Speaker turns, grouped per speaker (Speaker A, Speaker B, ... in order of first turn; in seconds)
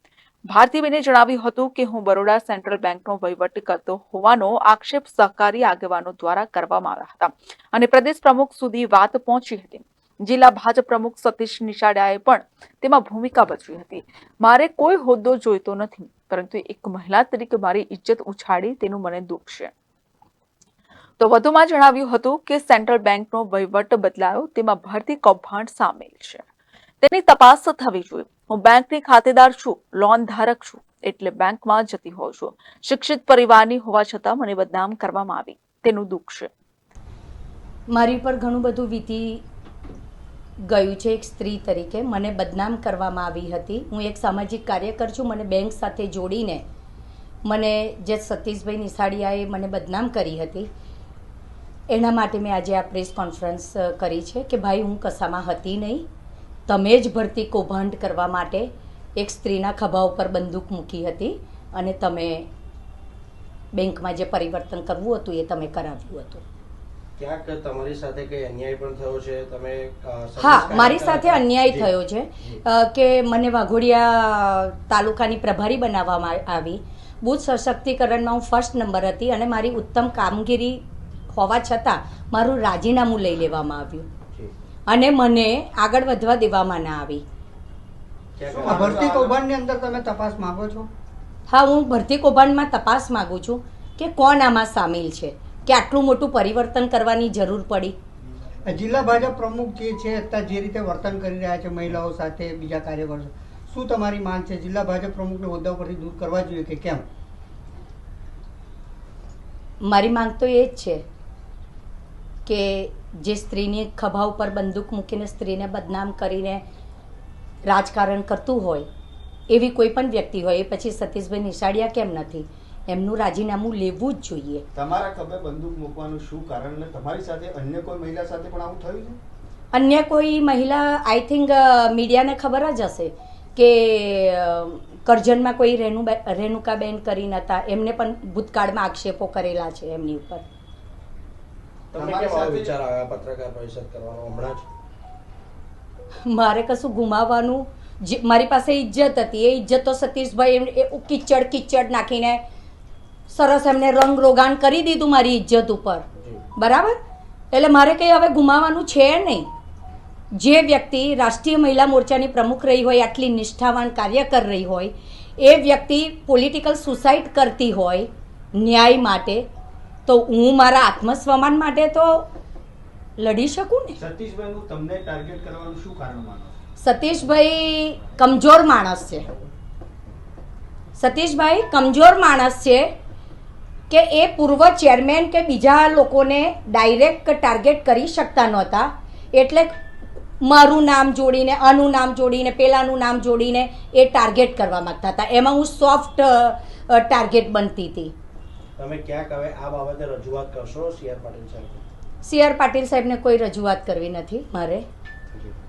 Speaker A: 0.5-19.7, 21.2-26.4, 27.0-36.5
Speaker B: 37.9-39.4, 40.7-46.6, 47.5-50.7, 51.9-56.1, 56.7-62.5, 63.7-66.4, 70.4-84.1, 84.9-87.2, 91.5-98.0, 109.8-111.0, 112.5-116.6, 117.7-118.9, 119.5-124.6, 129.7-140.4, 146.3-152.4, 153.3-156.1, 156.6-157.0, 157.5-159.5, 160.3-169.5, 170.1-172.3, 173.2-174.0, 176.8-179.3, 181.0-182.9, 183.9-189.7, 190.4-198.1, 202.2-204.8
Speaker C: 67.2-71.9, 88.4-89.4, 141.9-144.7, 198.8-201.8
Speaker D: 88.6-90.9, 98.6-107.0
Speaker E: 124.8-129.2, 142.0-142.7, 174.0-176.6